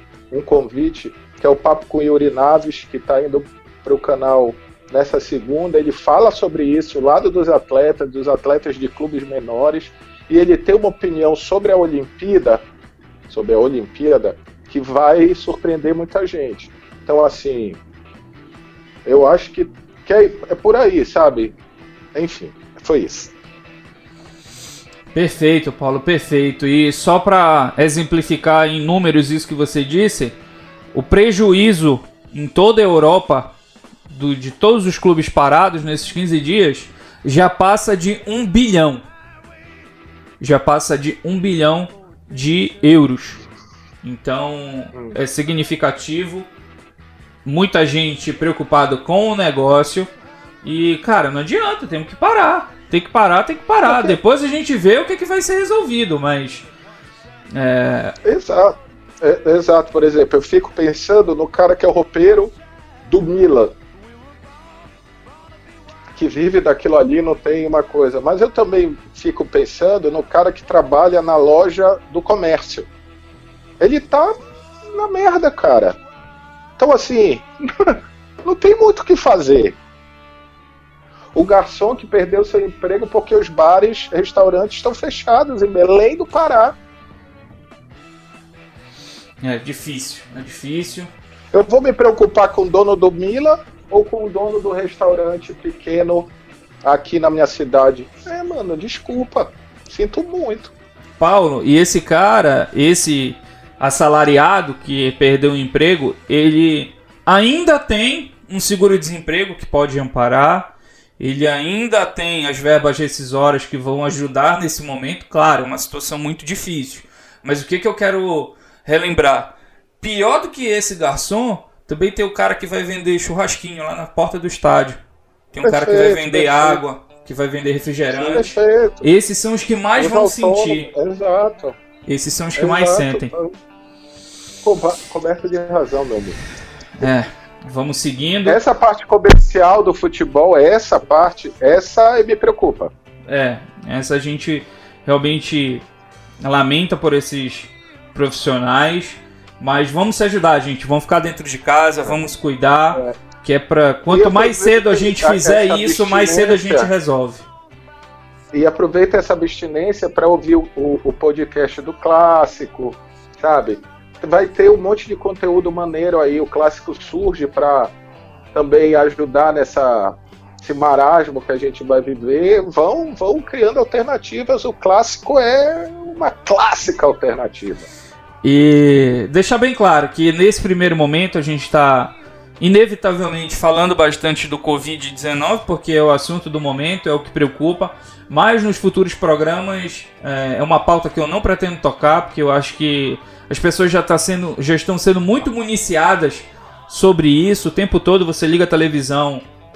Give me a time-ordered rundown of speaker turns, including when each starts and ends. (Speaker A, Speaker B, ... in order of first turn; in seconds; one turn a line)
Speaker A: 0.3-12.6
Speaker A: 13.3-17.8
Speaker A: 19.1-21.6
Speaker A: 22.1-23.3
Speaker B: 25.1-30.3
Speaker B: 30.9-33.5
Speaker B: 34.1-39.0
Speaker B: 40.4-43.4
Speaker B: 44.0-46.5
Speaker A: 44.9-45.2
Speaker B: 47.4-50.1
Speaker B: 50.6-56.7
Speaker A: 53.8-54.2
Speaker B: 57.5-58.1
Speaker A: 58.2-63.8
Speaker A: 66.1-72.9
Speaker A: 73.8-76.0
Speaker A: 76.8-79.8
Speaker A: 81.3-86.8
Speaker B: 89.4-91.1
Speaker A: 91.5-96.3
Speaker A: 96.8-100.7
Speaker B: 101.2-125.0
Speaker B: 125.5-130.9
Speaker A: 125.6-126.8
Speaker A: 128.1-129.1
Speaker A: 130.0-131.8
Speaker B: 132.1-133.3
Speaker A: 132.6-133.6
Speaker A: 134.6-136.4
Speaker B: 137.0-138.6
Speaker A: 138.4-142.9
Speaker B: 143.3-145.8
Speaker B: 146.4-157.4
Speaker A: 152.9-153.2
Speaker A: 154.1-156.9
Speaker A: 158.5-167.9
Speaker A: 168.5-177.9
Speaker B: 178.4-199.4